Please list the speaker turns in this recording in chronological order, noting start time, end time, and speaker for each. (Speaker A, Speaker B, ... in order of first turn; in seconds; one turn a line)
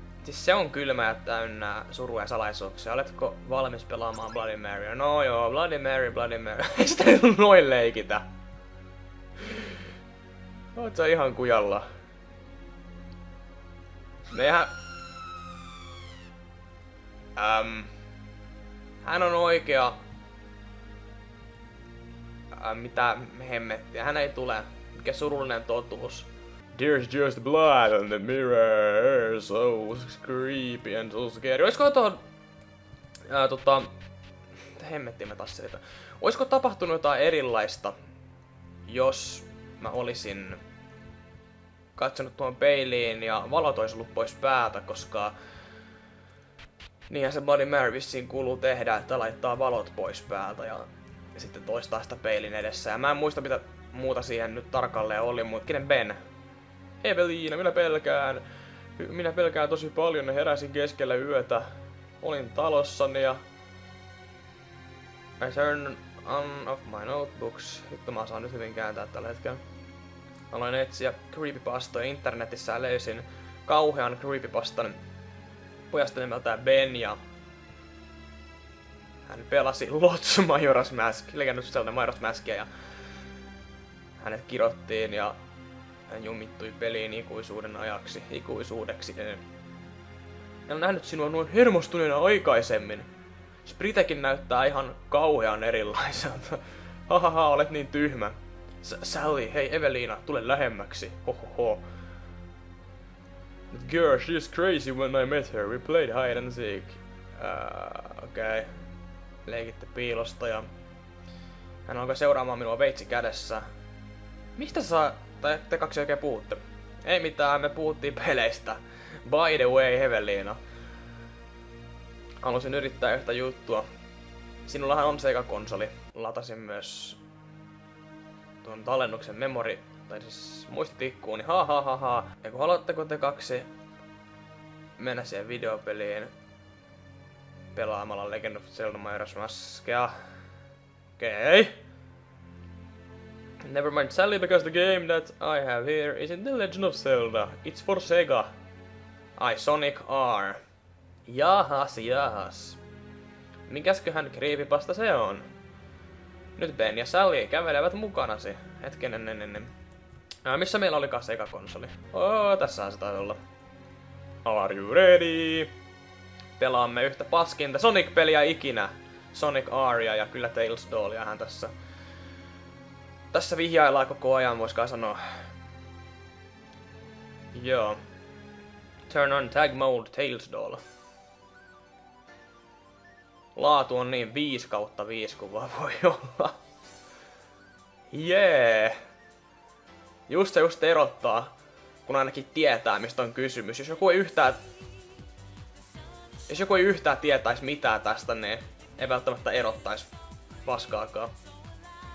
Speaker A: 0.2-8.3
Speaker A: 9.4-9.8
Speaker A: 10.7-11.9
Speaker A: 14.3-14.7
Speaker A: 17.4-17.9
Speaker A: 19.0-20.0
Speaker A: 22.5-32.2
Speaker A: 33.3-33.9
Speaker A: 34.8-37.9
Speaker A: 38.9-40.6
Speaker A: 42.0-45.3
Speaker A: 47.1-56.2
Speaker A: 57.0-58.4
Speaker A: 59.0-61.7
Speaker A: 62.2-63.4
Speaker A: 65.4-69.6
Speaker A: 70.5-75.0
Speaker A: 75.9-77.2
Speaker A: 79.3-82.7
Speaker A: 84.2-85.3
Speaker A: 86.1-89.4
Speaker A: 90.7-93.1
Speaker A: 93.6-101.8
Speaker A: 103.7-108.8
Speaker A: 109.5-110.7
Speaker A: 111.8-113.6
Speaker A: 114.6-120.6
Speaker A: 122.4-123.8
Speaker A: 124.6-127.2
Speaker A: 128.6-133.7
Speaker A: 135.0-136.3
Speaker A: 137.7-140.1
Speaker A: 141.2-141.8
Speaker A: 143.6-148.5
Speaker A: 149.4-150.6
Speaker A: 151.2-152.8
Speaker A: 153.7-155.5
Speaker A: 156.6-159.7
Speaker A: 160.4-163.4
Speaker A: 164.4-165.7
Speaker A: 166.6-171.7
Speaker A: 173.3-175.3
Speaker A: 177.5-178.0
Speaker A: 179.1-180.8
Speaker A: 183.6-186.6
Speaker A: 188.1-189.0
Speaker A: 190.3-194.6
Speaker A: 196.5-200.1
Speaker A: 200.6-201.3